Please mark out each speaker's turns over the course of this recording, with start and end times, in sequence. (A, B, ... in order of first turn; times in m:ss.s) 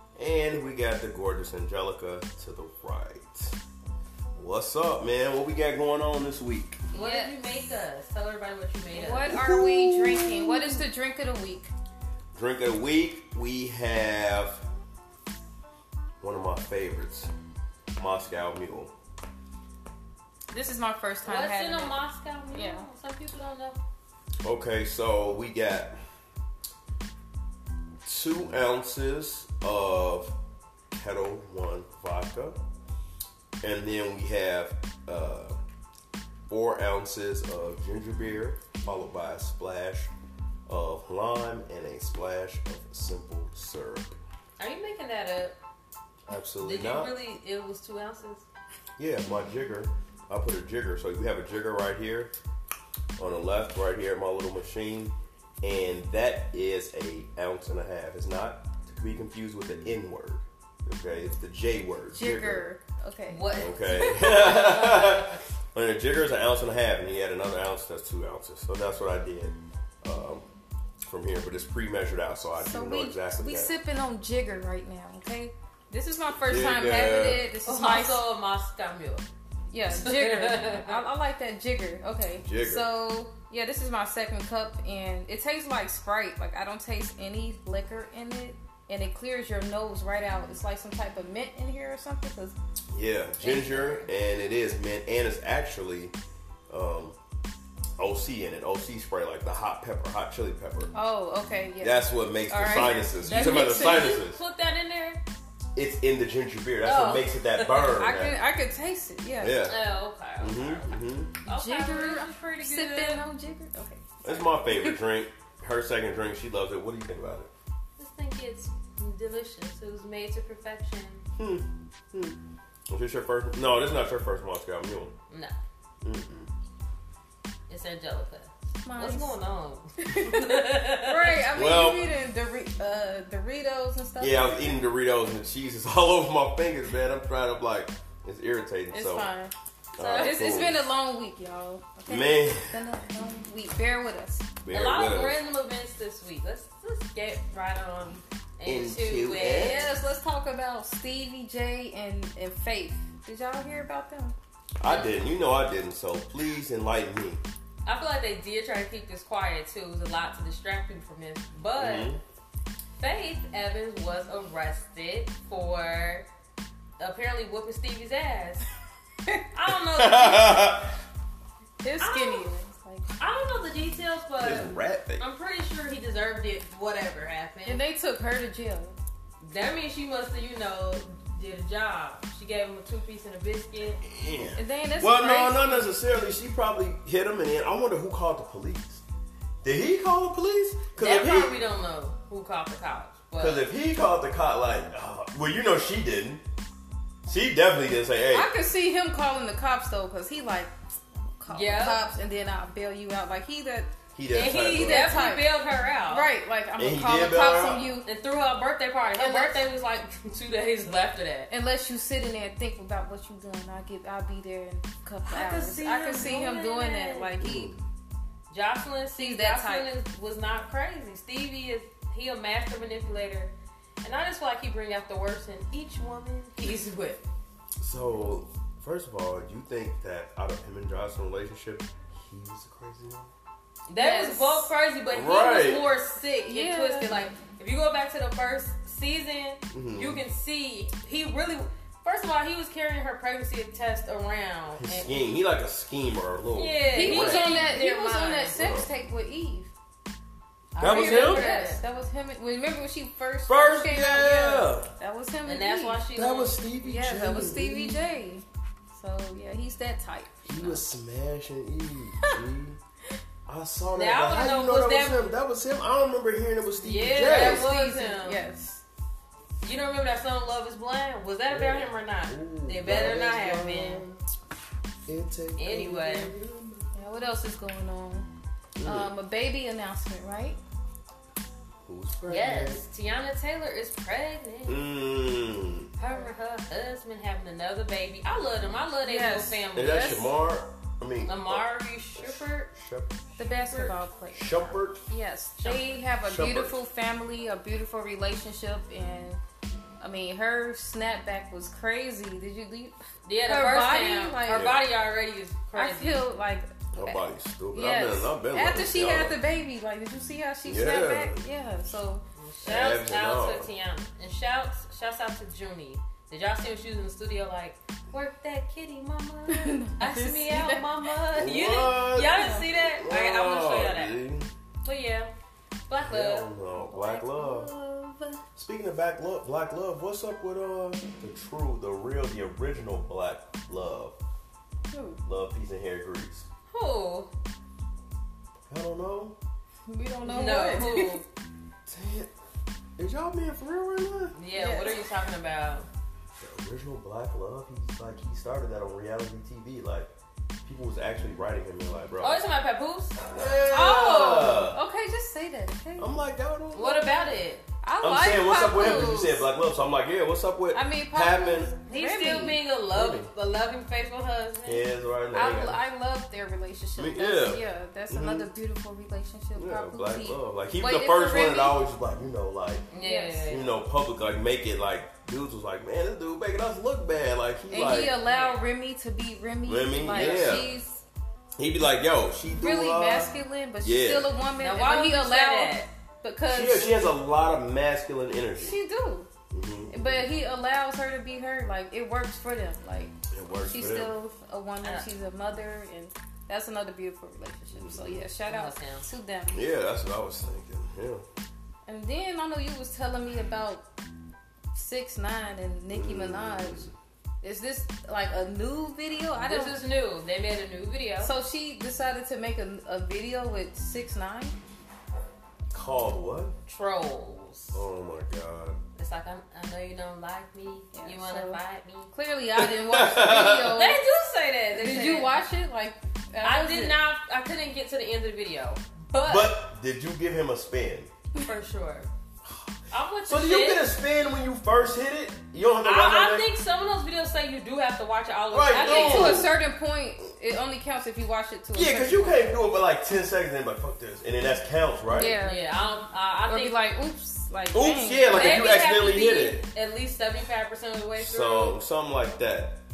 0:00.2-0:03.6 A
0:04.4-0:06.8 A
0:06.9-0:07.3 B
0:06.9-0:09.2 C
0:08.9-0:11.7 B
0:09.2-0:10.8 A
0:12.3-0:14.6 A
0:16.2-0:17.3 A
0:18.0-0:18.9 A
0:20.5-0:22.0 B
0:21.2-0:23.8 C
0:22.5-0:22.9 B
0:24.4-0:26.0 A
0:28.0-0:30.3 A
0:30.9-0:32.6 A
0:33.6-0:35.5 A
0:36.5-0:40.1 A
0:40.7-0:44.1 A
0:44.6-0:45.6 C
0:46.3-0:47.1 A
0:46.6-0:48.4 C
0:49.0-0:52.3 A
0:53.2-1:02.6 A
1:02.1-1:04.5 B
1:03.3-1:05.4 C
1:03.5-1:10.4 A
1:11.0-1:13.7 A
1:12.6-1:18.2 B
1:16.3-1:17.5 A
1:17.6-1:19.2 C
1:19.7-1:32.6 B
1:19.9-1:21.0 C
1:22.4-1:22.9 A
1:32.9-1:36.1 A
1:33.4-1:34.1 C
1:36.7-1:37.2 A
1:38.0-1:40.9 A
1:40.9-1:44.2 B
1:41.8-1:44.4 A
1:43.2-1:45.2 C
1:45.7-1:48.4 A
1:46.8-1:48.0 C
1:48.0-1:49.6 B
1:49.4-1:49.8 A
1:49.6-1:53.2 C
1:50.4-1:51.4 A
1:51.5-1:55.0 B
1:54.2-1:57.5 A
1:58.0-2:01.2 C
2:01.4-2:02.4 A
2:02.9-2:05.1 A
2:05.3-2:05.5 C
2:06.0-2:06.5 A
2:07.7-2:11.4 C
2:08.8-2:09.3 B
2:10.0-2:14.8 B
2:11.5-2:12.0 A
2:14.2-2:19.3 A
2:18.9-2:19.5 B
2:19.9-2:20.8 A
2:20.0-2:20.4 C
2:20.2-2:24.4 B
2:22.1-2:22.8 A
2:24.6-2:25.4 A
2:24.7-2:29.9 C
2:28.6-2:29.8 A
2:29.6-2:34.3 B
2:34.8-2:37.4 A
2:34.8-2:35.2 C
2:37.8-2:42.1 C
2:41.8-2:42.2 A
2:43.0-2:46.2 C
2:47.0-2:48.6 C
2:49.5-2:50.7 C
2:49.9-2:50.9 A
2:51.8-2:53.0 B
2:52.0-2:52.5 C
2:53.2-2:57.8 C
2:54.4-2:55.2 A
2:57.6-2:59.0 B
2:59.4-3:04.0 C
3:04.0-3:09.0 A
3:04.6-3:05.9 B
3:09.6-3:11.6 A
3:11.0-3:13.6 C
3:13.4-3:16.4 A
3:17.2-3:18.5 A
3:18.3-3:23.9 B
3:21.5-3:22.0 C
3:24.1-3:25.2 A
3:24.3-3:26.3 C
3:24.7-3:25.5 B
3:26.1-3:28.0 B
3:26.8-3:27.9 A
3:28.0-3:31.5 C
3:29.2-3:29.6 B
3:31.5-3:37.7 B
3:35.2-3:37.3 C
3:37.4-3:37.8 A
3:38.5-3:47.2 C
3:39.2-3:39.9 B
3:47.8-3:53.3 A
3:53.9-4:05.3 C
3:54.0-3:54.7 B
3:55.1-3:55.8 A
3:56.4-3:57.2 B
3:59.7-4:00.2 A
4:04.8-4:07.5 A
4:06.5-4:08.6 C
4:06.9-4:09.7 B
4:08.5-4:08.9 A
4:10.7-4:11.8 C
4:10.8-4:11.5 A
4:10.8-4:16.0 B
4:13.5-4:14.9 A
4:15.4-4:16.5 C
4:16.2-4:18.0 A
4:16.8-4:20.8 B
4:20.5-4:22.8 A
4:23.5-4:27.7 A
4:23.9-4:25.3 C
4:26.8-4:28.4 C
4:27.2-4:28.8 B
4:29.6-4:34.0 C
4:31.5-4:34.2 A
4:35.1-4:37.0 A
4:35.6-4:36.3 C
4:36.9-4:38.3 B
4:38.8-4:39.1 A
4:38.8-4:40.6 B
4:41.8-4:42.8 A
4:42.3-4:44.8 C
4:44.7-4:45.9 A
4:46.0-4:50.3 C
4:49.0-4:50.3 B
4:49.7-4:51.6 A
4:51.2-4:52.7 C
4:52.2-4:53.1 A
4:53.4-4:59.4 B
4:53.6-4:53.9 C
4:54.3-4:55.0 A
4:55.6-4:56.0 C
4:56.2-4:56.8 A
5:00.0-5:04.7 B
5:03.2-5:06.2 C
5:04.5-5:04.8 A
5:05.7-5:07.2 B
5:06.9-5:09.4 A
5:07.7-5:12.2 B
5:10.6-5:11.4 A
5:12.3-5:24.2 C
5:12.6-5:13.7 A
5:19.5-5:20.8 B
5:21.3-5:24.5 A
5:22.3-5:22.6 B
5:24.8-5:25.3 C
5:25.9-5:26.5 C
5:26.0-5:27.7 A
5:26.8-5:28.4 B
5:28.6-5:34.2 A
5:34.9-5:35.2 B
5:35.2-5:36.5 A
5:36.7-5:37.3 C
5:38.7-5:39.4 A
5:39.9-5:41.2 B
5:40.2-5:41.2 C
5:41.8-5:42.3 A
5:43.0-5:44.3 A
5:44.3-5:45.9 C
5:44.5-5:45.0 B
5:46.4-5:50.1 A
5:50.6-5:52.4 A
5:52.2-5:53.2 C
5:53.2-5:54.8 A
5:53.7-5:56.1 B
5:56.0-5:57.1 A
5:56.7-5:57.6 C
5:57.8-5:59.5 B
5:58.0-6:01.7 A
6:00.7-6:02.6 B
6:01.9-6:04.8 C
6:02.9-6:03.3 A
6:04.6-6:05.8 A
6:05.3-6:11.8 B
6:07.0-6:08.5 A
6:09.5-6:12.9 A
6:12.9-6:13.7 C
6:13.0-6:13.5 B
6:13.5-6:18.1 A
6:17.7-6:21.0 B
6:17.9-6:18.6 C
6:19.6-6:20.7 A
6:20.1-6:20.6 C
6:21.6-6:24.3 A
6:22.5-6:27.0 B
6:24.6-6:25.9 C
6:26.5-6:28.8 A
6:28.6-6:29.3 B
6:29.5-6:30.3 A
6:29.9-6:33.1 B
6:33.3-6:34.1 A
6:33.6-6:39.6 B
6:34.8-6:35.1 C
6:37.7-6:38.2 A
6:38.5-6:39.1 C
6:39.5-6:41.2 A
6:41.9-6:43.8 B
6:44.7-6:46.9 B
6:45.9-6:46.9 A
6:47.4-6:49.8 B
6:49.4-6:51.3 C
6:51.2-6:54.5 B
6:55.7-6:56.5 A
6:56.7-6:57.8 C
6:57.7-6:58.8 A
6:59.0-7:02.1 C
7:00.9-7:01.6 B
7:02.1-7:04.0 B
7:02.6-7:03.8 A
7:03.7-7:05.4 C
7:04.7-7:07.0 B
7:06.4-7:09.5 C
7:09.2-7:11.1 A
7:11.4-7:12.1 C
7:12.9-7:13.9 C
7:13.3-7:16.5 A
7:15.8-7:19.5 C
7:18.5-7:19.5 A
7:18.7-7:22.5 B
7:21.7-7:25.4 A
7:25.1-7:25.7 B
7:25.2-7:26.9 C
7:26.5-7:28.7 B
7:27.7-7:29.6 A
7:28.2-7:31.8 C
7:31.2-7:32.8 A